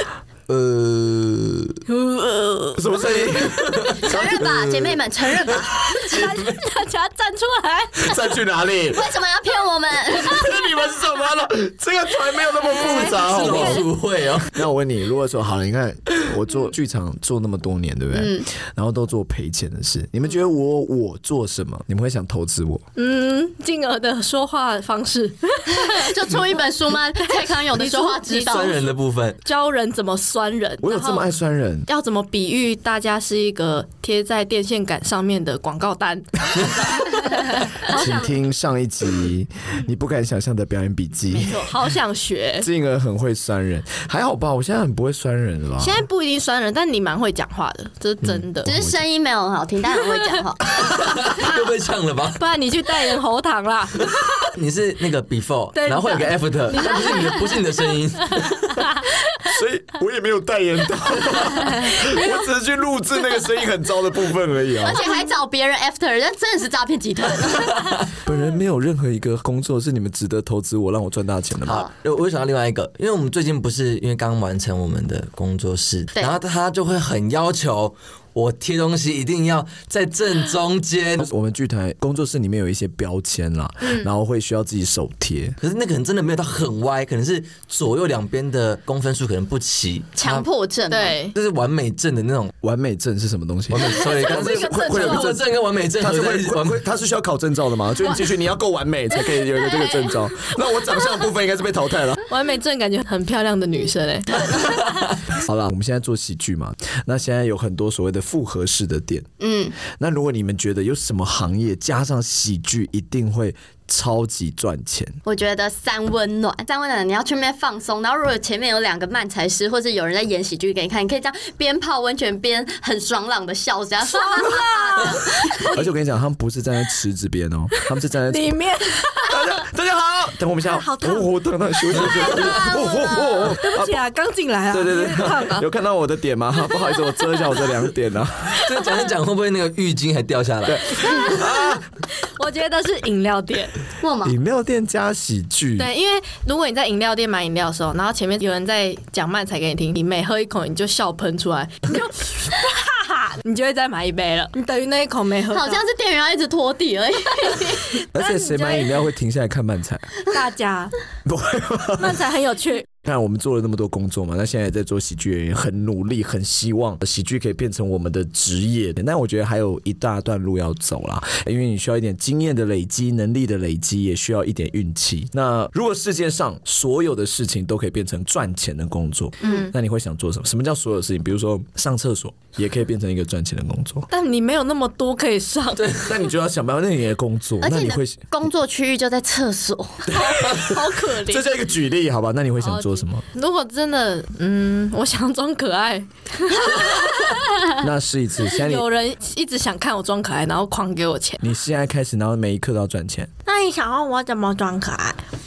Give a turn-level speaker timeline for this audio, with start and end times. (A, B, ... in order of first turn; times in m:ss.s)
0:00.5-0:01.8 A
0:01.9-0:02.9 B
0:02.8-0:04.3 C
0:03.3-0:06.6 A
0:04.0-0:05.9 D
0:05.8-0:08.2 B
0:08.0-0:09.0 C
0:08.9-0:10.5 D
0:10.2-0:13.9 C
0:12.6-0:13.9 B
0:12.8-0:14.5 A
0:14.5-0:22.8 C
0:18.1-0:18.5 D
0:23.0-0:26.2 B
0:25.8-0:28.8 D
0:27.2-0:31.3 B
0:28.4-0:29.4 A
0:30.8-0:31.9 C
0:31.9-0:38.4 B
0:37.9-0:41.7 C
0:41.3-0:42.7 B
0:42.6-0:46.0 C
0:45.8-0:48.7 B
0:48.6-0:50.6 D
0:48.6-0:49.0 C
0:50.8-0:52.4 A
0:52.4-0:54.5 B
0:54.1-0:58.9 A
0:55.7-0:57.7 B
0:58.4-0:59.5 B
0:59.4-1:05.0 C
1:01.5-1:02.5 B
1:04.8-1:07.9 D
1:07.7-1:08.1 A
1:08.2-1:11.9 C
1:11.6-1:21.3 A
1:21.2-1:25.6 C
1:25.6-1:30.5 A
1:30.2-1:31.2 D
1:30.9-1:31.4 B
1:31.3-1:32.5 A
1:32.6-1:42.2 C
1:33.7-1:36.8 A
1:33.9-1:35.4 B
1:39.2-1:41.2 B
1:42.3-1:45.1 B
1:45.3-1:49.3 C
1:49.4-1:49.8 D
1:49.9-1:55.2 C
1:55.2-2:05.3 D
2:04.0-2:05.9 B
2:05.7-2:08.6 C
2:08.3-2:09.6 B
2:09.3-2:14.0 C
2:10.6-2:11.3 B
2:11.9-2:12.7 B
2:12.3-2:13.6 D
2:13.3-2:15.7 B
2:14.7-2:18.6 C
2:16.6-2:17.7 B
2:18.5-2:21.3 A
2:18.7-2:19.1 B
2:20.6-2:21.8 C
2:20.9-2:23.8 B
2:24.0-2:24.4 D
2:24.2-2:25.9 C
2:25.8-2:35.8 B
2:35.5-2:38.0 D
2:37.7-2:39.0 B
2:38.1-2:40.2 C
2:40.3-2:40.9 B
2:41.2-2:42.2 C
2:42.0-2:42.9 B
2:43.0-3:04.1 C
2:59.4-2:59.7 D
2:59.4-2:59.7 B
3:04.1-3:05.9 B
3:05.8-3:06.2 A
3:06.0-3:08.2 C
3:07.6-3:10.1 D
3:10.1-3:13.2 C
3:10.1-3:11.4 B
3:12.6-3:17.7 B
3:17.8-3:18.9 C
3:18.4-3:21.5 B
3:21.4-3:23.3 C
3:23.4-3:25.2 B